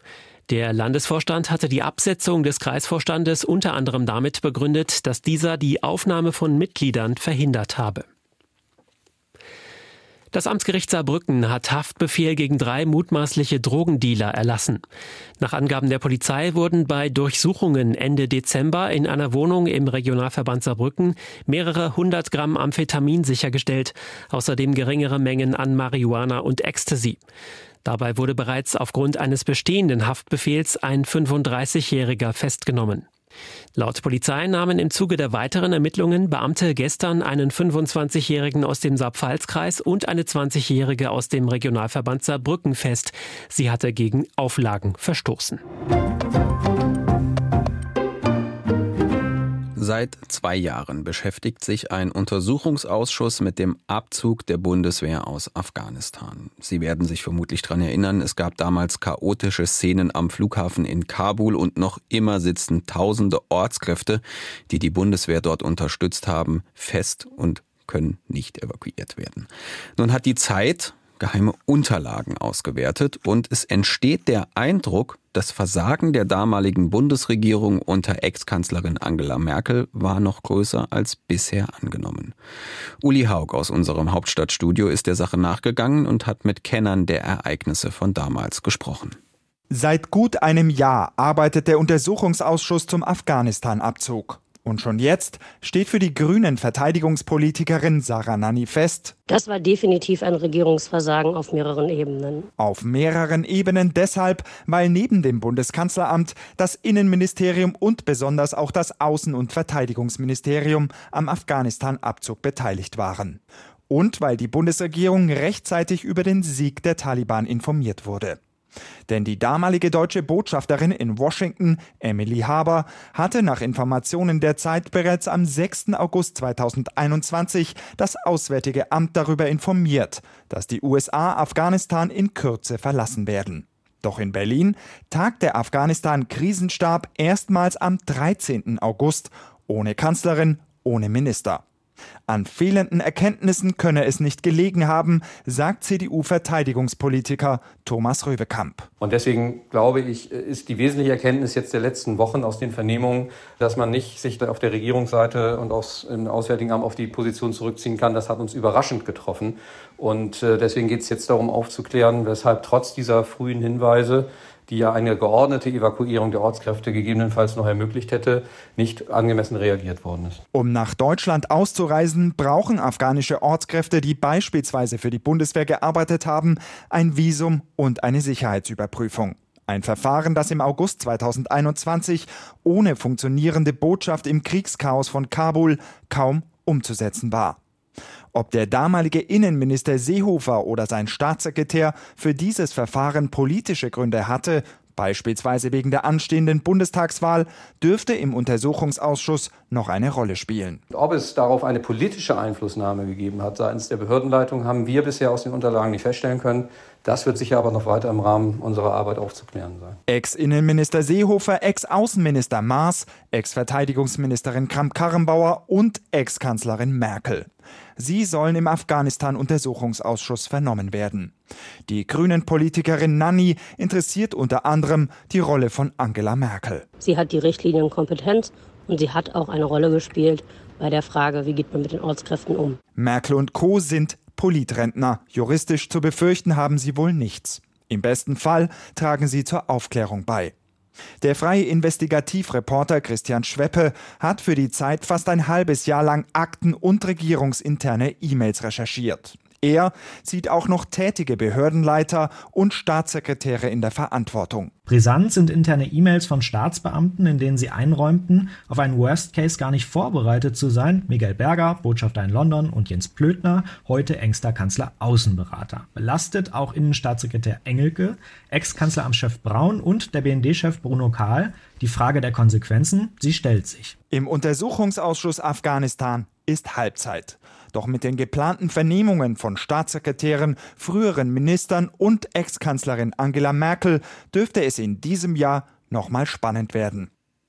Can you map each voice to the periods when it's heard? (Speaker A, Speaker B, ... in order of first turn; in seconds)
Speaker A: 0.5-8.1, 10.3-14.8, 15.4-27.2, 27.8-33.1, 33.8-45.6
Speaker B: 49.8-82.4, 83.0-89.2
Speaker C: 89.7-99.2, 102.6-118.4, 119.1-141.6, 142.3-148.9, 170.5-187.6, 188.3-200.8, 210.1-221.3, 221.9-226.8, 233.0-240.5, 241.2-254.7, 274.1-287.1
Speaker D: 99.3-102.5, 227.0-232.8
Speaker E: 149.0-170.4, 200.9-210.0
Speaker F: 254.9-273.9